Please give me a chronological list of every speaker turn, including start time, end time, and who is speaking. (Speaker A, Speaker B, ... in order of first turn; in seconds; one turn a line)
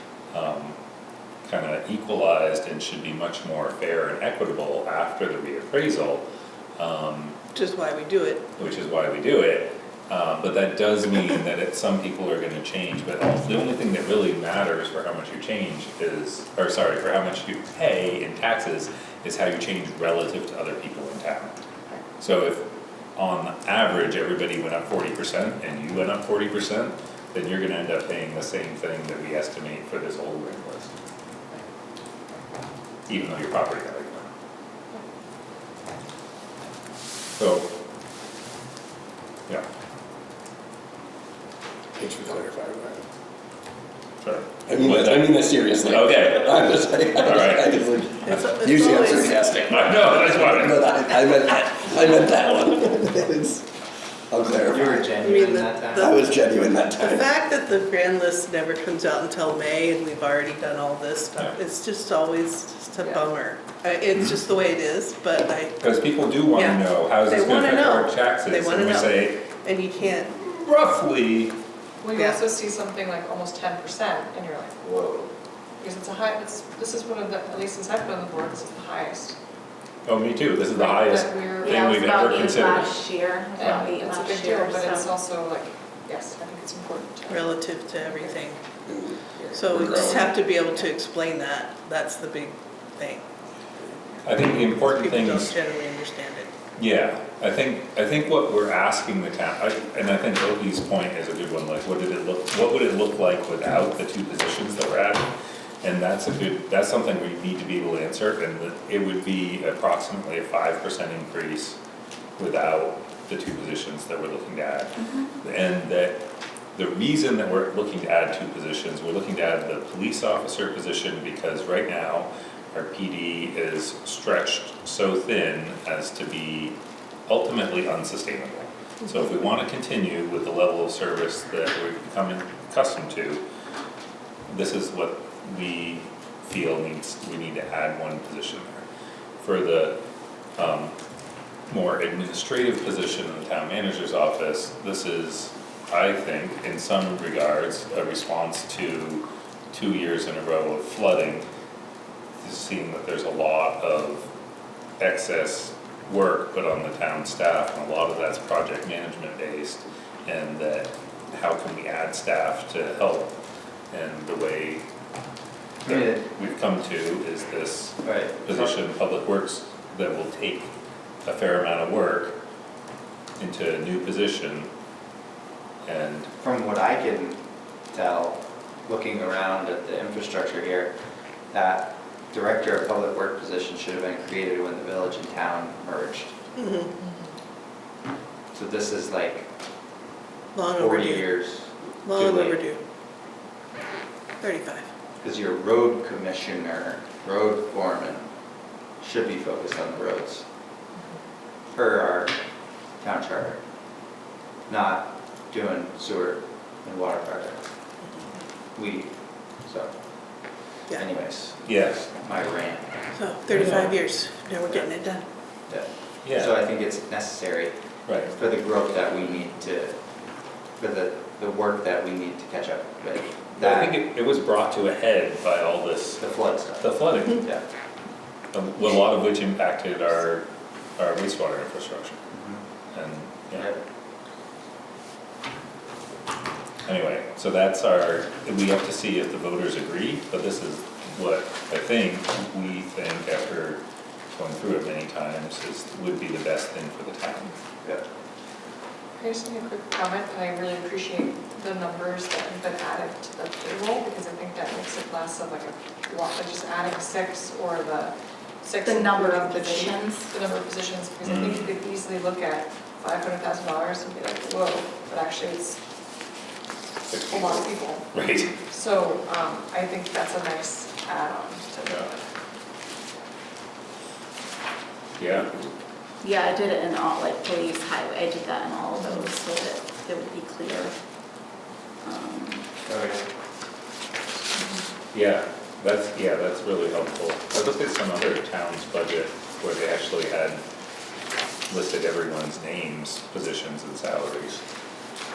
Speaker A: 0.3-0.8
Speaker A: 1.4-6.2
Speaker A: 6.8-7.4
Speaker B: 7.5-8.5
Speaker A: 8.6-21.5
Speaker A: 22.2-30.9
Speaker A: 33.1-34.3
Speaker A: 37.4-37.7
Speaker C: 42.0-43.0
Speaker A: 44.2-48.4
Speaker C: 44.7-53.7
Speaker B: 48.2-49.5
Speaker A: 49.7-50.9
Speaker C: 54.3-55.1
Speaker D: 54.7-56.2
Speaker B: 55.2-56.0
Speaker C: 55.9-57.3
Speaker B: 57.0-65.8
Speaker E: 63.0-63.2
Speaker A: 65.8-69.5
Speaker B: 66.5-70.3
Speaker A: 70.3-71.6
Speaker E: 72.0-79.4
Speaker B: 72.2-72.4
Speaker A: 80.0-83.0
Speaker E: 80.7-82.2
Speaker F: 81.6-85.1
Speaker E: 83.5-88.3
Speaker B: 87.3-88.7
Speaker C: 88.9-89.2
Speaker B: 89.5-93.3
Speaker C: 89.7-90.3
Speaker A: 94.2-95.5
Speaker B: 94.5-96.5
Speaker A: 96.8-105.3
Speaker A: 105.8-111.8
Speaker A: 112.4-126.8
Speaker F: 115.0-115.3
Speaker A: 127.3-133.4
Speaker A: 134.5-138.8
Speaker A: 139.4-140.0
Speaker A: 140.6-140.9
Speaker A: 141.7-151.5
Speaker A: 152.4-154.3
Speaker A: 155.0-163.4
Speaker A: 163.9-164.8
Speaker D: 165.8-166.2
Speaker A: 165.8-170.7
Speaker D: 168.0-168.7
Speaker A: 171.2-172.4
Speaker A: 173.4-174.7
Speaker A: 175.8-176.3
Speaker D: 176.4-181.0
Speaker D: 181.5-186.4
Speaker B: 186.6-186.9
Speaker E: 187.0-187.3
Speaker D: 188.5-189.5
Speaker B: 190.5-191.3
Speaker D: 190.7-192.6
Speaker B: 192.0-192.8
Speaker B: 194.4-194.9
Speaker D: 195.2-198.3
Speaker D: 199.0-200.4
Speaker D: 201.7-202.3
Speaker D: 203.0-203.6
Speaker D: 204.7-207.6
Speaker D: 208.7-213.9
Speaker A: 211.6-212.1
Speaker B: 213.1-215.2
Speaker A: 213.5-213.9
Speaker D: 215.7-224.0
Speaker A: 216.2-216.6
Speaker A: 218.1-218.3
Speaker A: 223.6-227.5
Speaker D: 226.2-227.6
Speaker A: 228.5-232.2
Speaker D: 232.3-232.6
Speaker A: 232.9-233.7
Speaker D: 233.5-233.8
Speaker A: 236.8-243.8
Speaker A: 244.3-247.6
Speaker E: 249.2-265.8
Speaker F: 258.8-260.3
Speaker A: 261.2-261.8
Speaker A: 267.1-268.6
Speaker E: 267.3-272.3
Speaker A: 275.2-275.6
Speaker F: 276.2-281.0
Speaker F: 282.0-282.7
Speaker D: 282.9-283.2
Speaker A: 285.1-290.6
Speaker A: 291.7-294.6